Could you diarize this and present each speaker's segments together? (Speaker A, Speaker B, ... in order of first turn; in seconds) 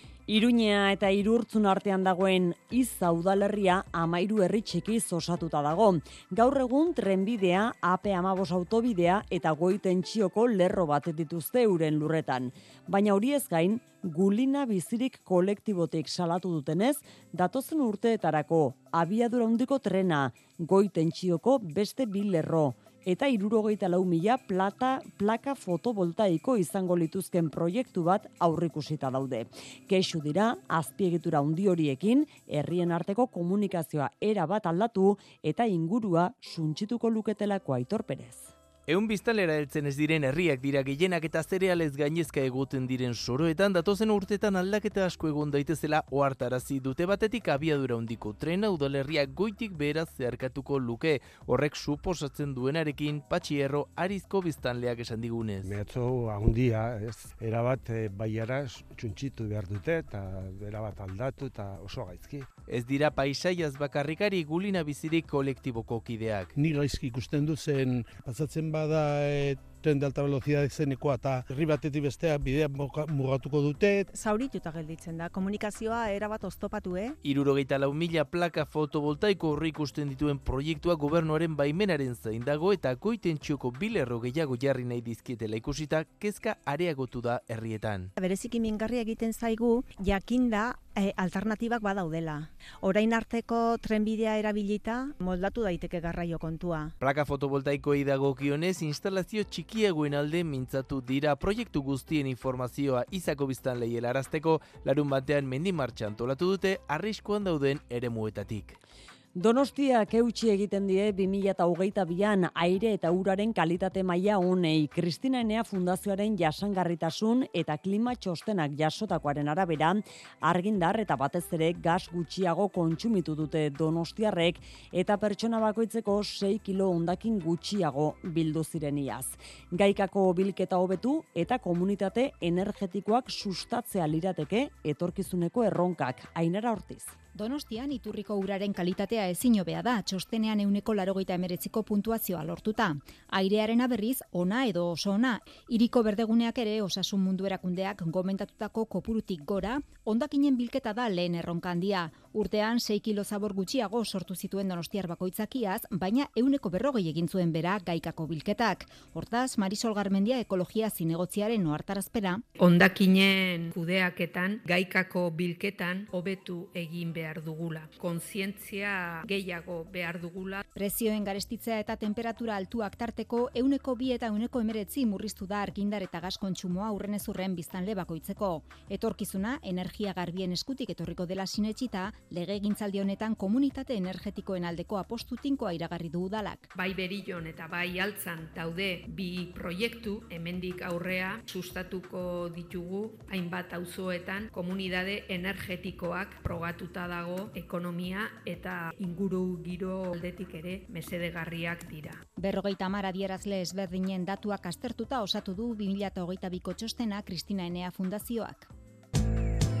Speaker A: 0.3-38.5, 109.3-137.2
Speaker B: 38.9-55.7, 62.7-66.5, 77.2-88.1, 97.0-108.8
Speaker C: 55.6-62.5, 66.6-74.0
Speaker D: 74.1-77.1, 88.2-96.9
Speaker E: 137.3-162.4, 170.7-186.7, 202.4-208.7
Speaker F: 162.6-170.6, 186.7-202.2